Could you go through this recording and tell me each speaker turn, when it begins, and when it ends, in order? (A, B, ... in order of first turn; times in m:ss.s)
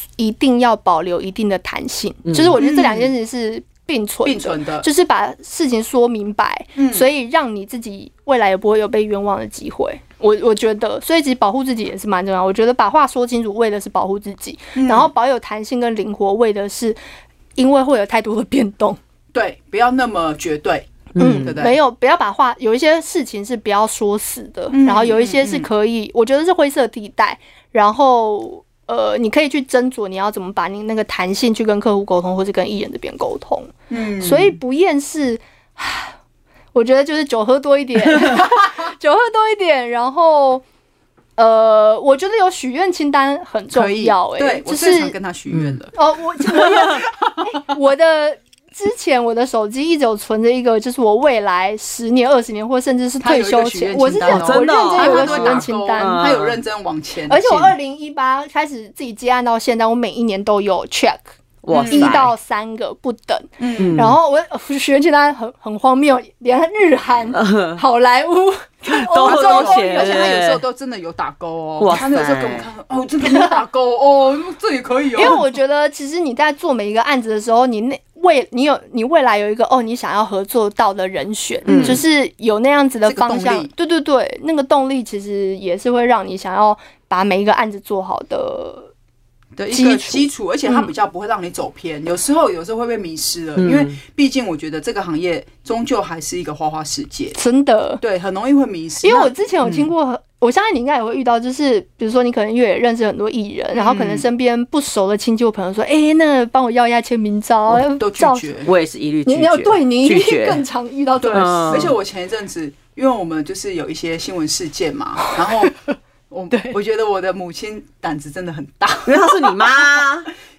0:00.2-0:17.0 A
0:02.3-0:02.6 B
0:02.6-0:03.1 C
0:04.2-0:04.9 C
0:06.8-0:07.1 C
0:14.8-0:15.1 C
0:17.6-0:19.0 A
0:19.3-0:21.8 C
0:21.2-0:21.6 B
0:21.2-0:36.1 A
0:24.7-0:25.7 C
0:33.9-0:34.6 C
0:36.7-0:40.6 A
0:41.4-0:45.2 A
0:43.7-0:47.7 C
0:45.5-0:45.8 B
0:46.0-0:56.3 A
0:53.2-0:57.8 C
0:54.3-0:56.6 B
0:57.3-1:01.2 A
1:01.6-1:02.3 B
1:01.7-1:02.2 C
1:01.8-1:10.4 A
1:03.6-1:04.1 C
1:03.8-1:04.2 B
1:07.3-1:07.8 B
1:08.9-1:10.6 B
1:09.2-1:15.4 C
1:11.8-1:12.7 B
1:13.3-1:13.6 A
1:15.2-1:28.9 A
1:21.7-1:22.0 B
1:21.7-1:22.0 C
1:23.1-1:23.7 C
1:29.6-1:37.4 C
1:29.7-1:30.9 A
1:33.6-1:34.0 B
1:37.4-1:38.0 A
1:38.0-1:39.9 C
1:39.0-1:48.5 A
1:43.7-1:44.3 C
1:47.7-1:48.7 C
1:48.6-1:50.6 B
1:49.2-1:51.9 A
1:51.2-1:55.8 C
1:51.3-1:52.0 B
1:55.3-1:55.7 A
1:56.3-1:59.7 C
1:56.5-1:56.8 A
1:59.1-2:00.3 B